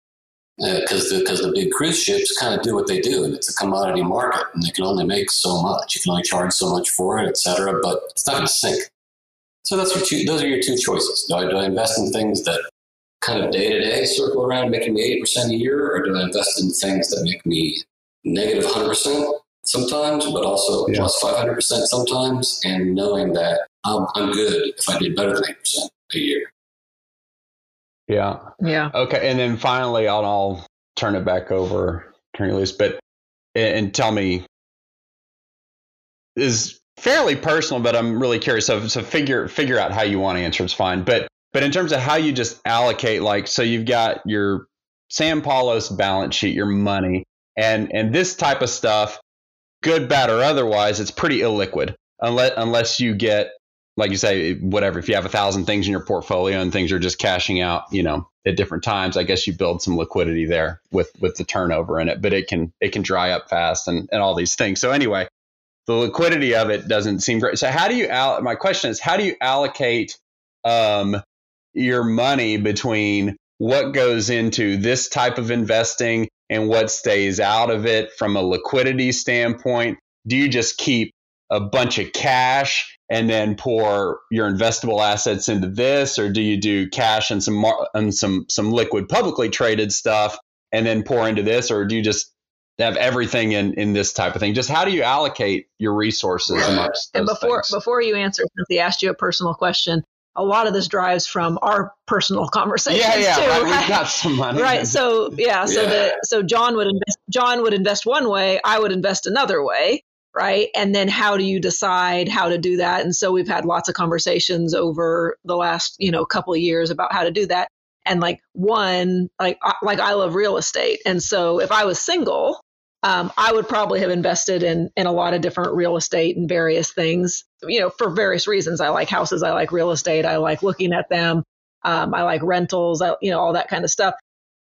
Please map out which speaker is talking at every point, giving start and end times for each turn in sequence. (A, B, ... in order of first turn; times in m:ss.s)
0:00.6-0:08.9 A
0:09.6-0:12.6 A
0:13.2-0:26.5 A
0:28.1-0:33.0 B
0:28.6-0:28.9 C
0:33.6-0:34.4 B
0:36.4-0:49.2 B
0:49.8-1:05.3 B
1:05.9-1:11.2 B
1:11.8-1:37.7 B
1:36.5-1:36.9 A
1:36.6-2:14.2 C
1:42.9-1:45.4 B
1:45.6-1:46.2 A